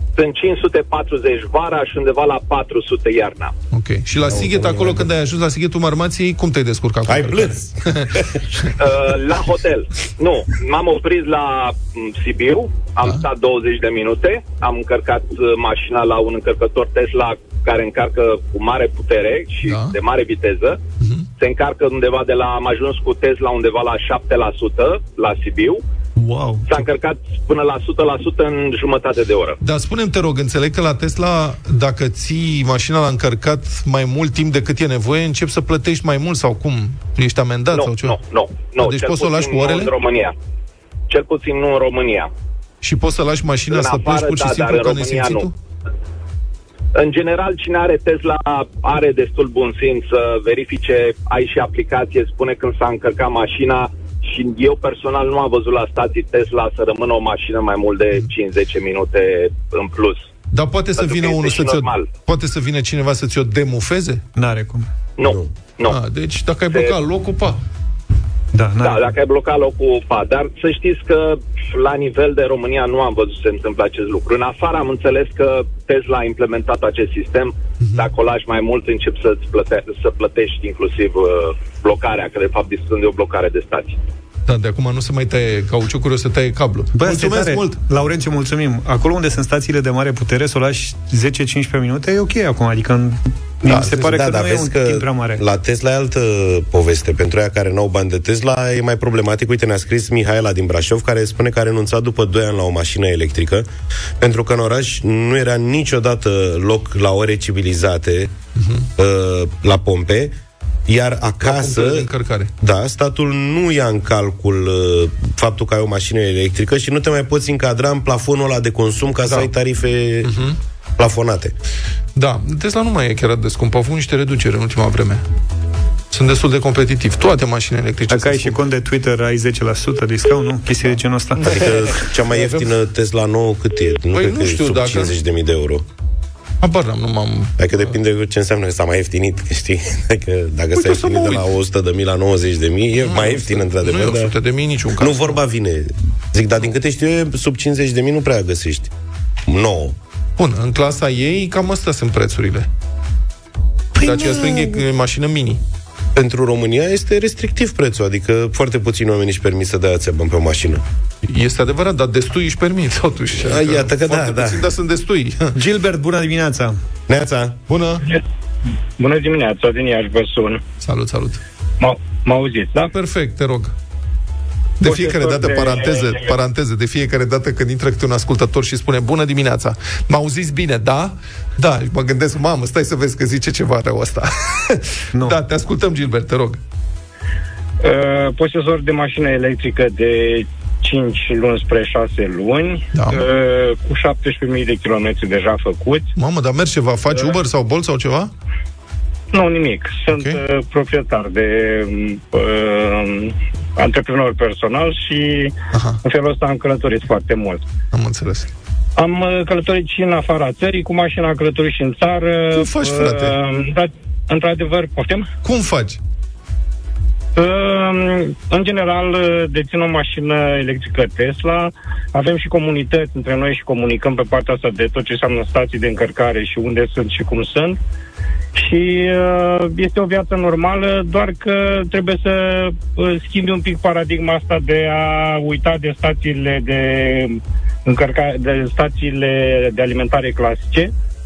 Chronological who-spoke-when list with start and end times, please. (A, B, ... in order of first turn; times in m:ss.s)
0:00.2-0:03.5 A
0:03.7-0:08.1 B
0:04.3-0:05.1 C
0:07.1-0:08.4 C
0:08.8-0:20.8 A
0:19.6-0:20.0 B
0:21.0-0:21.3 B
0:21.4-0:25.8 A
0:26.2-0:26.7 D
0:26.7-0:29.6 A
0:29.6-0:38.2 B
0:37.7-0:40.3 A
0:38.8-0:39.9 B
0:41.1-0:42.3 A
0:42.8-0:45.6 B
0:43.7-0:45.5 A
0:47.0-1:00.3 A
1:00.5-1:04.2 B
1:01.0-1:02.1 A
1:04.4-1:04.9 D
1:05.2-1:06.0 A
1:05.9-1:07.6 B
1:08.5-1:09.0 D
1:08.8-1:24.0 A
1:17.8-1:18.1 B
1:24.5-1:27.8 B
1:27.0-1:35.4 D
1:33.7-1:34.0 B
1:33.9-1:43.7 C
1:44.2-1:48.3 C
1:48.6-1:48.9 B
1:49.0-1:50.3 C
1:50.9-1:52.1 C
1:51.4-1:52.5 B
1:52.6-2:00.3 C
2:00.2-2:00.6 B
2:01.0-2:01.5 C
2:02.2-2:05.2 B
2:06.1-2:08.6 B
2:08.1-2:12.0 D
2:11.4-2:15.8 C
2:14.1-2:15.2 B
2:16.6-2:18.0 B
2:17.6-2:24.3 C
2:20.8-2:21.5 B
2:23.0-2:25.3 B
2:25.0-2:28.9 C
2:29.5-2:30.0 C
2:30.4-2:32.7 B
2:34.0-2:35.6 B
2:34.0-2:34.6 C
2:36.2-2:40.8 C
2:41.2-2:45.5 B
2:43.4-2:44.6 C
2:45.6-2:46.8 D
2:47.1-2:47.6 C
2:47.7-2:48.0 B
2:49.0-2:50.6 E
2:50.8-2:51.4 B
2:51.8-2:52.9 E
2:52.9-2:53.7 B
2:54.8-3:06.6 B
2:54.8-2:56.3 E
3:07.8-3:16.1 E
3:12.9-3:13.3 B
3:16.2-3:18.3 B
3:19.3-3:25.5 E
3:20.1-3:20.4 B
3:25.7-3:26.0 B
3:26.0-3:27.6 E
3:27.9-3:28.5 B
3:29.0-3:35.3 E
3:32.5-3:33.4 B
3:35.4-3:36.0 B
3:37.4-3:47.8 E
3:48.6-4:00.9 E